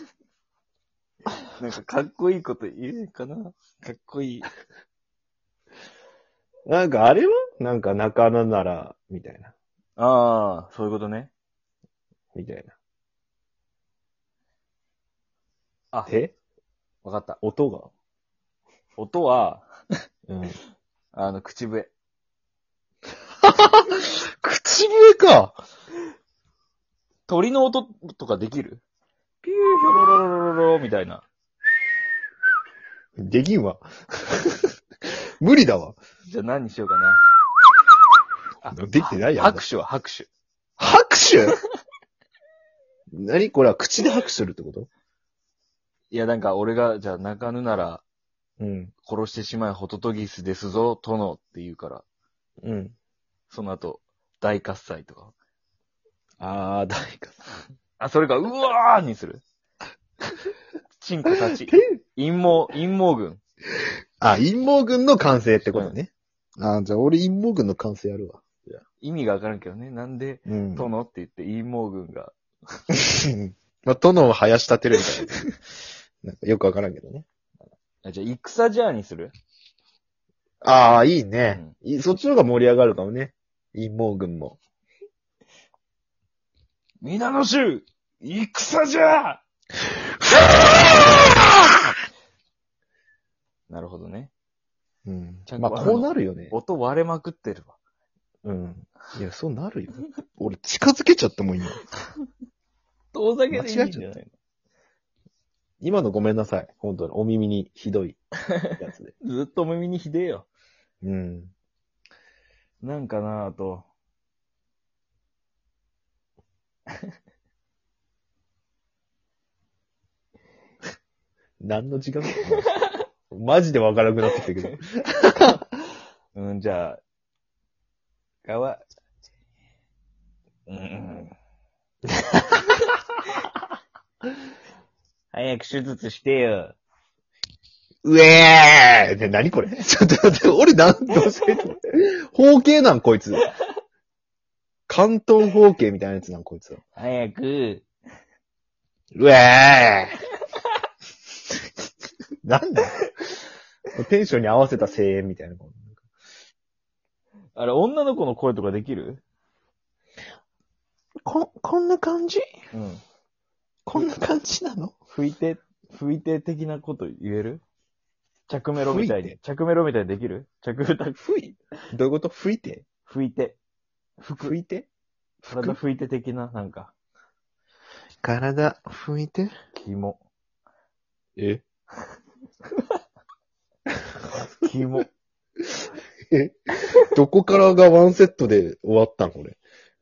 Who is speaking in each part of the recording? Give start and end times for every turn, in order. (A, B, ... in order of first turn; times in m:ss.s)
0:01.6-0:04.5 A
0:06.7-0:09.5 B
0:10.0-0:11.3 A
0:12.3-0:12.7 B
0:16.0-0:16.3 B
0:17.0-0:17.4 A
0:17.4-0:17.9 B
0:19.0-0:19.6 A
0:20.3-0:20.6 B
0:21.1-0:21.9 A
0:23.4-0:25.6 B
0:27.3-0:28.8 A
0:29.4-0:31.2 A
0:33.2-0:34.6 B
0:35.4-0:36.0 B
0:36.3-0:37.2 A
0:38.6-0:39.6 B
0:38.6-0:40.3 A
0:40.8-0:41.6 B
0:43.1-0:44.9 B
0:46.1-0:48.0 A
0:48.6-0:48.9 B
0:49.0-0:52.0 A
0:52.6-0:52.9 B
0:53.5-0:55.3 A
0:56.4-0:57.4 B
0:58.0-0:59.4 A
1:01.0-1:03.4 A
1:01.4-1:02.0 B
1:04.2-1:08.8 B
1:05.6-1:05.9 A
1:09.0-1:12.3 A
1:10.4-1:10.9 B
1:12.9-1:15.5 B
1:16.2-1:17.2 B
1:18.0-1:19.3 A
1:20.6-1:24.6 B
1:27.0-1:29.4 A
1:33.7-1:34.3 A
1:35.0-1:36.5 B
1:35.5-1:37.7 A
1:38.4-1:41.8 B
1:43.1-1:44.3 A
1:43.5-1:44.1 B
1:45.8-1:48.2 B
1:48.6-1:50.5 A
1:48.8-1:49.1 B
1:51.0-1:51.5 B
1:52.8-1:53.8 A
2:01.6-2:02.7 B
2:02.3-2:02.9 A
2:03.3-2:05.6 B
2:06.3-2:07.0 A
2:08.4-2:08.8 A
2:10.7-2:11.3 A
2:12.3-2:12.6 B
2:15.3-2:16.7 A
2:18.0-2:23.4 B
2:24.9-2:26.8 B
2:27.0-2:27.8 A
2:29.1-2:30.2 B
2:32.4-2:33.1 B
2:33.9-2:36.0 B
2:37.5-2:39.2 A
2:41.2-2:42.5 B
2:42.7-2:43.0 A
2:43.8-2:44.9 B
2:45.1-2:47.6 A
2:48.5-2:51.3 A
2:48.8-2:49.4 B
2:51.2-2:52.8 B
2:53.0-2:53.6 A
2:54.2-2:54.6 A
2:54.4-2:54.9 B
2:55.4-2:55.8 B
2:55.5-2:56.9 A
2:58.2-2:59.5 B
2:59.7-3:00.2 A
3:01.4-3:01.6 B
3:04.6-3:05.1 A
3:06.3-3:09.6 B